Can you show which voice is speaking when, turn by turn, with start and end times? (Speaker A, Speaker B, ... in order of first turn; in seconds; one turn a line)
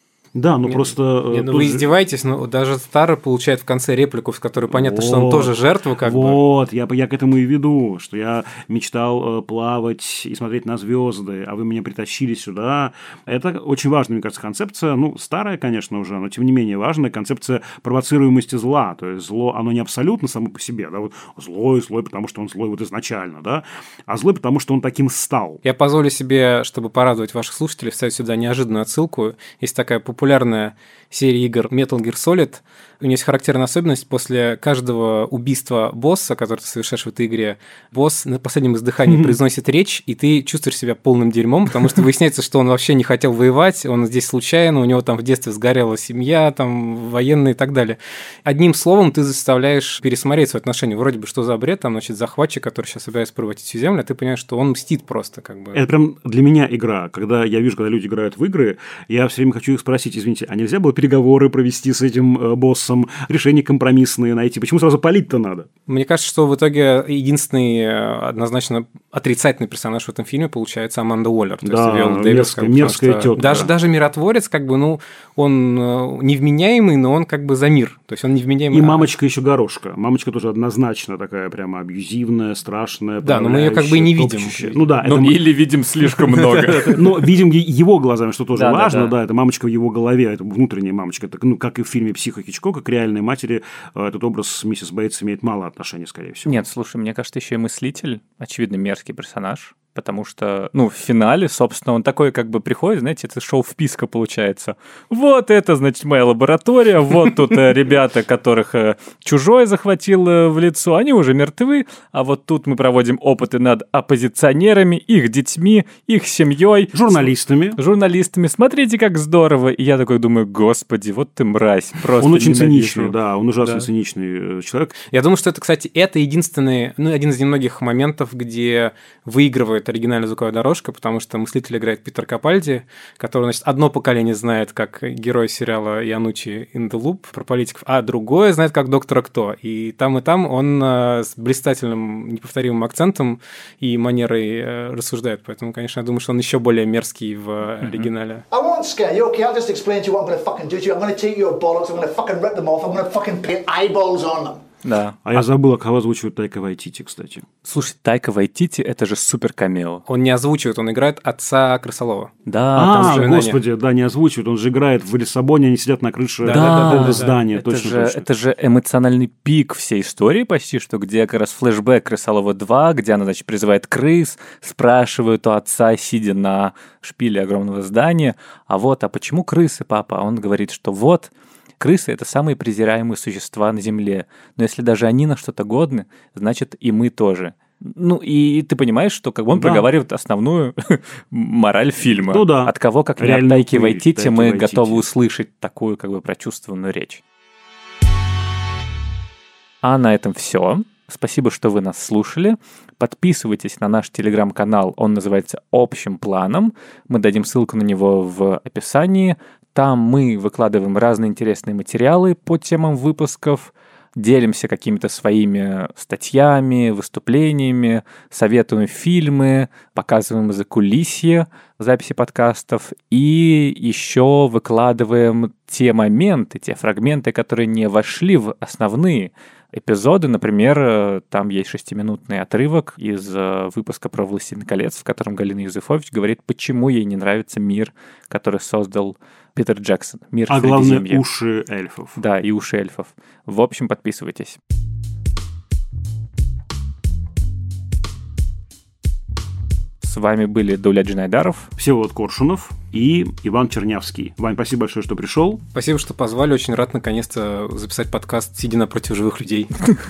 Speaker A: 0.3-1.9
Speaker B: 0.7-6.4
Speaker A: 4.7-25.6
Speaker B: 25.6-55.8
Speaker A: 39.0-39.4
Speaker A: 55.7-65.7
Speaker B: 65.9-79.1
Speaker A: 71.6-73.7
Speaker A: 78.7-85.4
Speaker B: 83.2-84.8
Speaker C: 85.0-87.0
Speaker A: 86.7-96.6
Speaker C: 88.5-89.1
Speaker C: 96.4-123.2
Speaker A: 116.9-117.8
Speaker A: 122.2-124.9
Speaker B: 125.1-148.4
Speaker C: 147.8-148.1
Speaker D: 148.5-154.6
Speaker C: 154.8-155.4
Speaker A: 155.2-157.4
Speaker C: 157.6-160.0
Speaker B: 160.1-162.3
Speaker C: 162.5-163.5
Speaker A: 162.7-168.2
Speaker B: 162.9-163.6
Speaker B: 166.4-167.4
Speaker C: 166.5-197.2
Speaker A: 189.5-189.9
Speaker A: 192.3-195.0
Speaker C: 199.8-241.2
Speaker A: 240.5-242.2
Speaker C: 242.2-244.6
Speaker C: 250.0-251.7
Speaker A: 251.8-255.6
Speaker B: 255.7-259.7